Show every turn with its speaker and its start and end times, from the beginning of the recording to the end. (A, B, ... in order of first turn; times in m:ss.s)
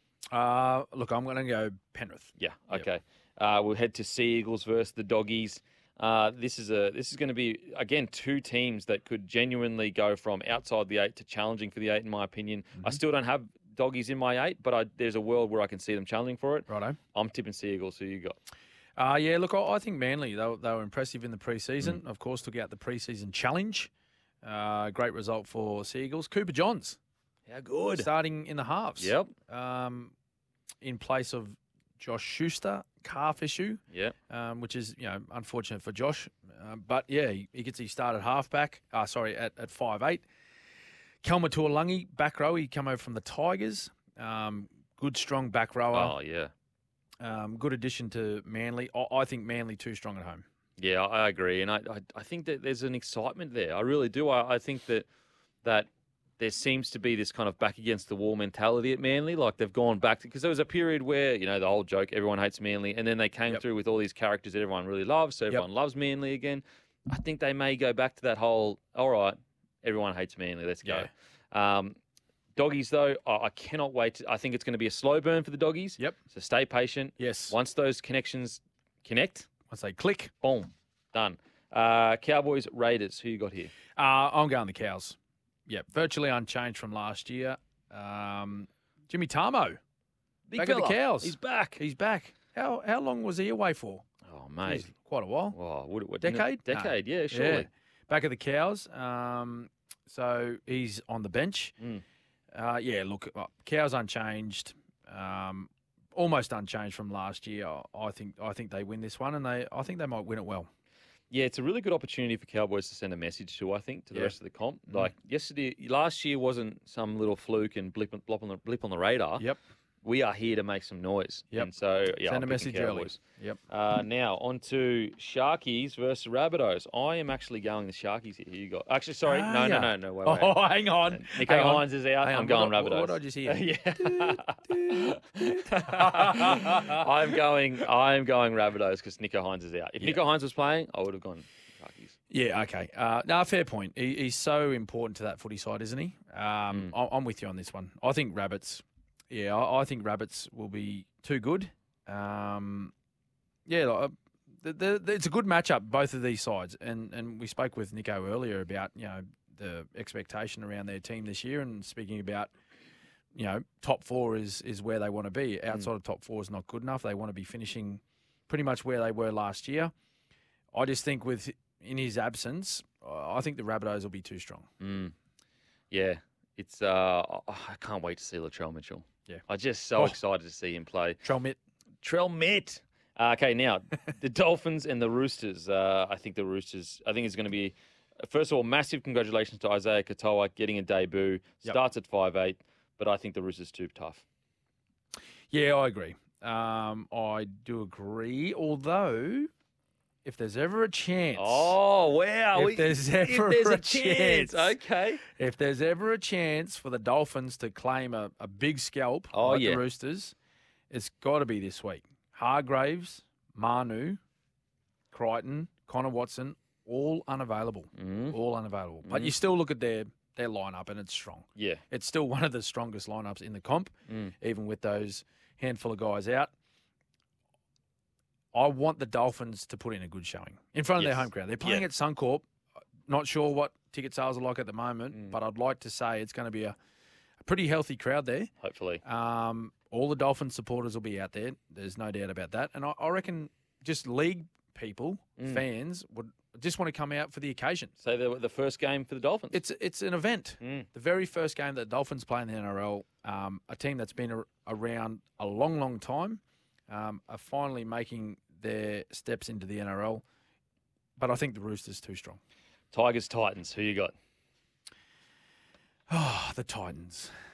0:00.3-0:02.9 A
0:02.4-0:18.4 B
0:16.7-0:17.0 A
0:19.0-0:23.9 A
0:24.4-0:27.0 A
0:27.5-0:28.1 B
0:28.0-0:30.1 A
0:29.0-0:29.3 B
0:30.8-0:40.3 A
0:41.2-0:46.2 A
0:45.9-0:46.5 B
0:47.2-0:50.4 A
0:50.8-0:55.1 B
0:55.6-1:12.0 B
1:10.8-1:11.1 A
1:12.6-1:19.5 B
1:17.2-1:17.6 A
1:19.7-1:20.3 A
1:20.4-1:23.7 B
1:24.0-1:29.8 A
1:30.5-1:31.8 B
1:30.6-1:34.0 A
1:34.3-1:34.9 B
1:34.6-1:35.6 A
1:35.5-1:37.7 B
1:36.2-1:41.7 A
1:42.5-1:50.7 A
1:51.3-1:59.5 B
2:00.0-2:22.1 B
2:02.3-2:03.6 A
2:09.3-2:17.4 A
2:22.3-2:32.9 A
2:33.7-2:42.5 A
2:43.4-2:49.9 A
2:50.7-2:54.7 A
2:54.8-2:55.1 B
2:55.9-3:01.2 B
3:01.2-3:01.6 A
3:02.0-3:14.2 B
3:15.5-3:19.5 A
3:20.2-3:21.8 A
3:21.4-3:25.2 B
3:22.6-3:24.8 A
3:25.3-3:30.4 A
3:29.3-3:29.8 B
3:30.9-3:34.2 A
3:35.1-3:46.5 A
3:38.0-3:38.4 B
3:39.0-3:39.3 B
3:41.6-3:41.8 B
3:44.1-3:44.3 B
3:48.5-3:52.4 A
3:51.0-3:51.8 B
3:53.1-3:56.8 A
3:57.4-3:58.5 A
3:58.6-3:59.0 B
3:59.0-4:07.9 A
4:05.4-4:05.6 B
4:08.0-4:09.6 B
4:09.5-4:20.2 A
4:10.6-4:10.9 B
4:21.2-4:22.4 A
4:22.9-4:24.1 B
4:26.1-4:27.3 A